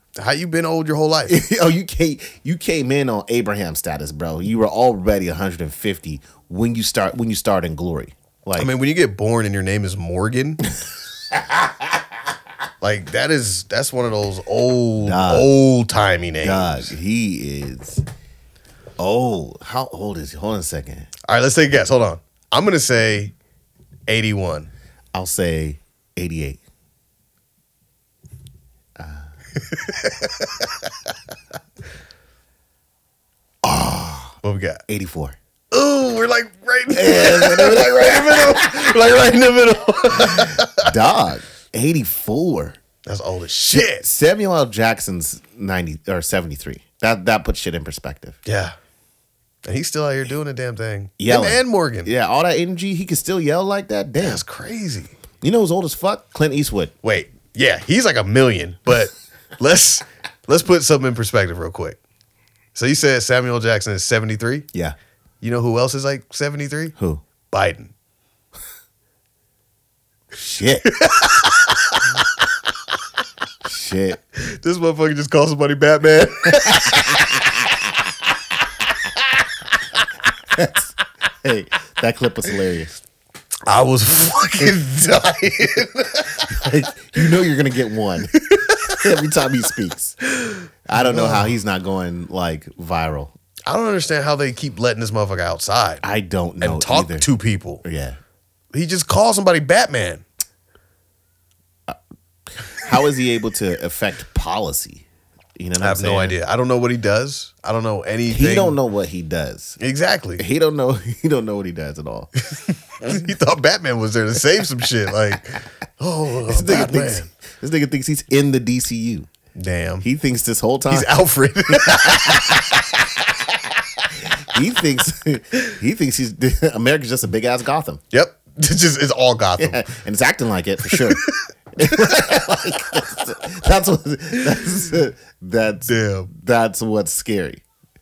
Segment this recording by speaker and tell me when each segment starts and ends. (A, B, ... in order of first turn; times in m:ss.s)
0:00.2-0:01.4 A
0:01.3-0:08.7 B
0:08.6-0:10.6 A
0:11.3-0:11.9 B
0:12.8-0:16.9 A
0:15.0-0:15.5 B
0:16.4-0:18.0 B
0:19.0-0:21.1 B
0:21.2-0:23.3 A
0:24.1-0:24.7 A
0:25.1-0:26.6 B
0:29.0-0:29.3 B
0:29.6-0:31.1 A
0:33.6-0:34.4 B
0:34.4-0:34.8 A
0:34.9-0:35.4 B
0:35.7-0:40.9 A
0:36.9-0:38.9 B
0:40.2-0:42.8 B
0:43.0-0:44.0 A
0:43.7-0:48.4 B
0:48.4-0:48.8 A
0:49.6-0:52.1 A
0:51.2-0:54.4 B
0:54.2-0:55.1 A
0:55.4-0:56.9 B
0:57.0-1:02.0 A
1:02.7-1:04.7 A
1:05.4-1:06.9 A
1:07.0-1:07.2 B
1:07.5-1:07.9 A
1:10.3-1:11.0 B
1:10.8-1:12.2 A
1:13.6-1:14.2 B
1:14.4-1:17.5 A
1:16.6-1:17.7 B
1:20.5-1:22.9 B
1:23.7-1:26.8 A
1:26.4-1:30.2 B
1:28.4-1:29.1 A
1:30.2-1:31.5 A
1:30.9-1:33.3 B
1:33.7-1:36.0 A
1:36.0-1:37.3 B
1:36.6-1:37.8 A
1:37.8-1:38.2 B
1:38.7-1:40.2 A
1:42.5-1:45.0 B
1:45.6-1:46.4 B
1:45.8-1:48.8 A
1:48.3-1:49.8 B
1:49.8-1:50.4 A
1:50.4-1:52.3 B
1:52.4-1:57.3 A
1:56.5-1:59.3 B
1:59.5-2:00.0 A
2:00.0-2:01.1 B
2:00.9-2:02.9 A
2:01.7-2:02.9 B
2:04.2-2:08.0 B
2:08.1-2:09.9 A
2:09.6-2:17.6 B
2:10.8-2:12.4 A
2:15.9-2:16.3 A